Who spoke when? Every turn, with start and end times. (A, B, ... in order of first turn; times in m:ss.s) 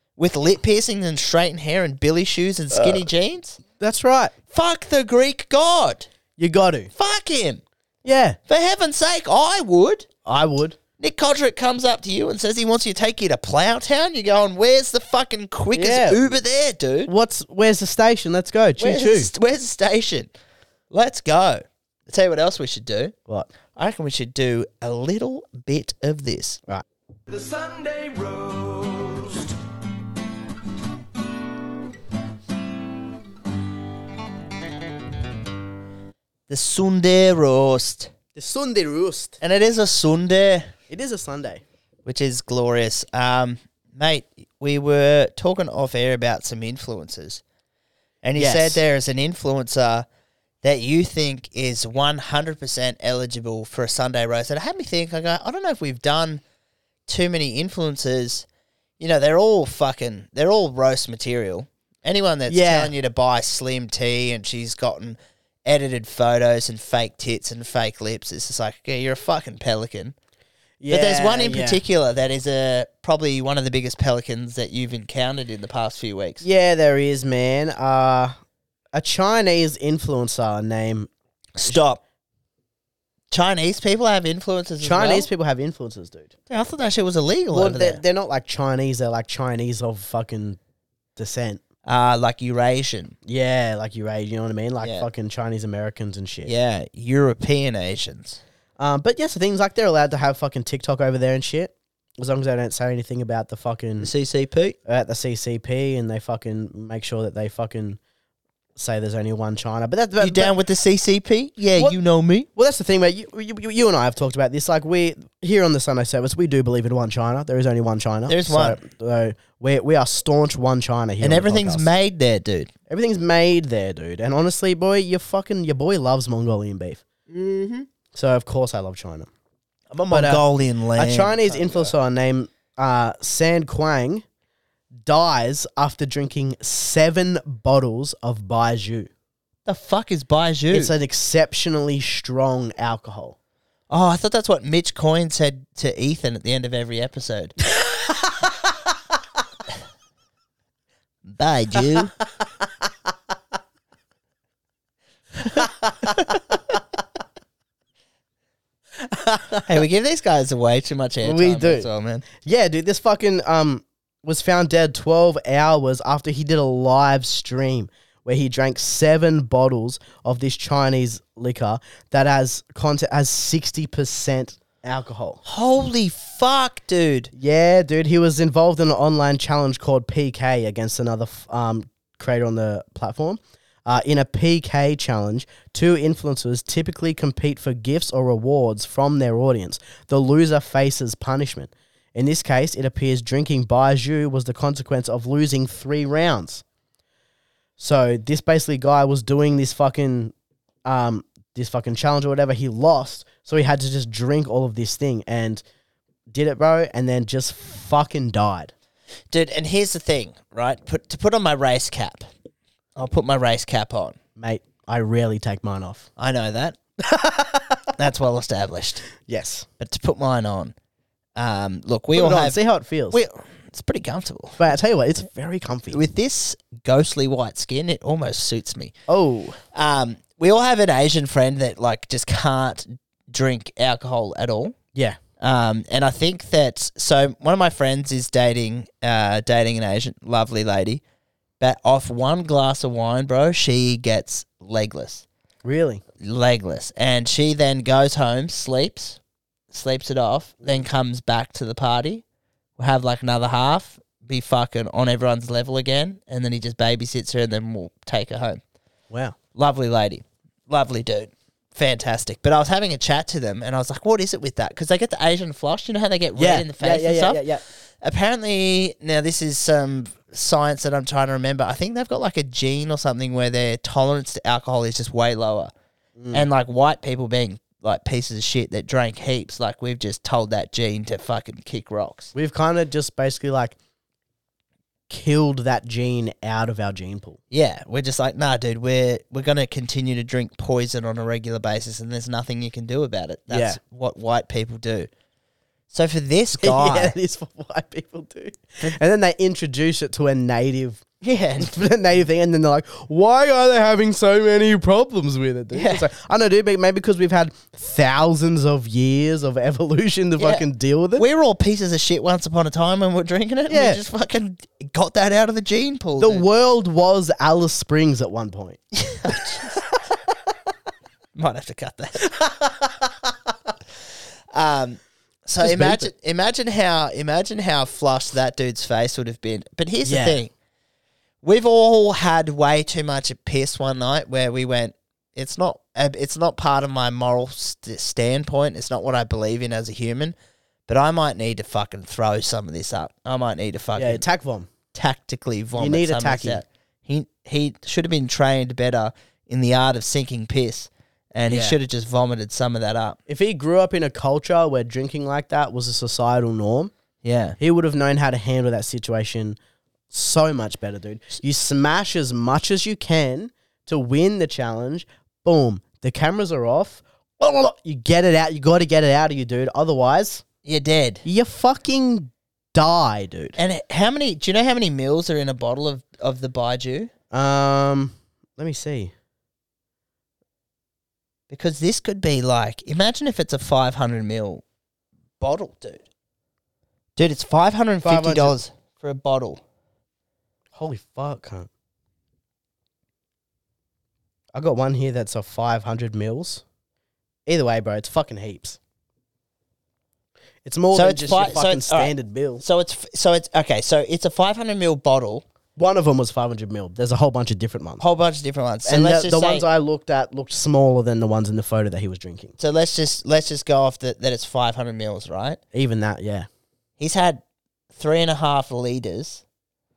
0:00.2-0:03.6 A
0:02.7-0:03.0 B
0:03.8-0:04.3 B
0:04.5-0:06.1 A
0:06.4-0:06.9 B
0:07.0-0:07.6 A
0:08.0-0:08.4 B
0:08.5-0:10.1 A
0:10.2-0:10.8 B
0:11.0-0:17.1 A
0:15.7-0:16.2 B
0:17.1-0:19.3 B
0:18.8-0:20.3 A
0:20.9-0:23.1 A
0:23.8-0:26.6 A
0:27.3-0:29.5 C
0:36.5-0:38.1 A
0:38.4-0:39.4 B
0:39.4-0:40.7 A
0:40.9-0:41.6 B
0:42.0-0:47.4 A
0:48.2-0:50.1 A
0:48.4-0:48.8 B
0:50.6-0:56.4 A
0:57.1-0:58.5 A
0:59.0-1:10.2 A
1:02.5-1:02.9 B
1:10.8-1:11.8 B
1:10.9-1:16.4 A
1:16.4-1:18.4 B
1:18.9-1:21.1 B
1:21.6-1:22.0 A
1:23.3-1:25.3 A
1:24.8-1:26.3 B
1:26.5-1:28.0 A
1:27.5-1:30.6 B
1:31.2-1:31.6 B
1:31.9-1:33.2 A
1:33.3-1:36.5 B
1:34.8-1:35.1 A
1:36.5-1:38.4 A
1:38.8-1:44.1 B
1:44.0-1:44.8 A
1:44.9-1:48.0 B
1:48.8-1:50.5 B
1:50.2-1:52.5 A
1:52.6-2:01.9 B
1:58.3-1:58.8 A
2:01.2-2:02.7 A
2:02.9-2:07.0 B
2:07.3-2:07.9 A
2:08.1-2:09.3 B
2:09.9-2:11.9 A
2:10.1-2:10.4 B
2:11.0-2:14.2 B
2:15.0-2:19.1 B
2:19.7-2:21.0 A
2:20.7-2:23.4 B
2:23.9-2:27.6 A
2:31.3-2:32.2 A
2:35.6-2:36.4 B
2:39.0-2:39.8 B
2:39.7-2:42.3 A
2:41.2-2:41.9 B
2:42.4-2:55.4 B
2:55.4-2:57.3 A
2:57.4-3:16.6 B
3:17.8-3:20.3 B
3:20.8-3:25.6 B
3:26.3-3:28.7 B
3:29.3-3:32.3 A
3:33.0-3:34.2 A
3:34.4-3:36.1 B
3:36.2-3:36.8 A
3:37.1-3:37.9 B
3:38.0-3:39.0 A
3:39.2-3:39.7 B
3:39.8-3:40.7 A
3:41.4-3:42.6 A
3:42.1-3:43.2 B
3:43.1-3:44.6 A
3:44.6-3:46.0 B
3:45.9-3:48.9 A
3:49.1-3:49.6 B
3:49.7-3:54.8 A
3:55.4-4:01.0 A
4:01.6-4:05.2 A
4:05.6-4:06.0 B
4:06.2-4:09.2 A
4:09.7-4:12.2 A
4:12.8-4:18.6 A
4:19.1-4:19.4 B
4:19.6-4:27.4 A
4:26.4-4:27.6 B
4:28.0-4:35.7 A
4:36.2-4:36.5 B
4:36.3-4:42.3 A
4:42.3-4:43.8 B
4:45.1-4:47.4 B
4:47.5-4:55.1 A
4:53.5-4:53.8 B
4:55.9-4:57.1 A
4:56.6-5:01.0 B
5:01.2-5:01.7 A
5:01.6-5:11.3 B
5:05.7-5:06.0 A
5:10.4-5:10.7 A
5:11.2-5:16.4 A
5:13.7-5:14.0 B
5:16.2-5:19.4 B
5:18.9-5:19.8 A
5:21.4-5:22.3 A
5:22.4-5:22.9 B
5:24.5-5:30.5 A
5:25.6-5:26.1 B
5:30.0-5:30.4 B
5:31.4-5:40.4 A
5:40.9-5:44.2 A
5:44.0-5:44.7 B
5:44.9-5:53.2 A
5:45.8-5:46.6 B
5:51.5-5:51.8 B
5:53.3-5:56.9 B
5:57.2-5:57.6 A
5:57.6-5:59.6 B
6:00.1-6:10.4 B
6:10.6-6:11.2 A
6:11.2-6:13.6 B
6:13.6-6:17.1 A
6:17.3-6:19.1 B
6:21.5-6:24.6 A
6:25.4-6:26.0 A
6:27.2-6:29.6 A
6:28.0-6:28.6 B
6:30.7-6:31.7 B
6:34.6-6:36.6 B
6:37.5-6:38.8 B
6:40.6-6:42.6 B
6:40.9-6:45.4 A
6:45.8-6:48.0 B
6:48.0-6:49.6 A
6:48.9-6:52.6 B
6:52.6-6:55.6 A
6:55.7-6:56.5 B
6:57.0-6:57.4 A
6:58.0-6:59.4 A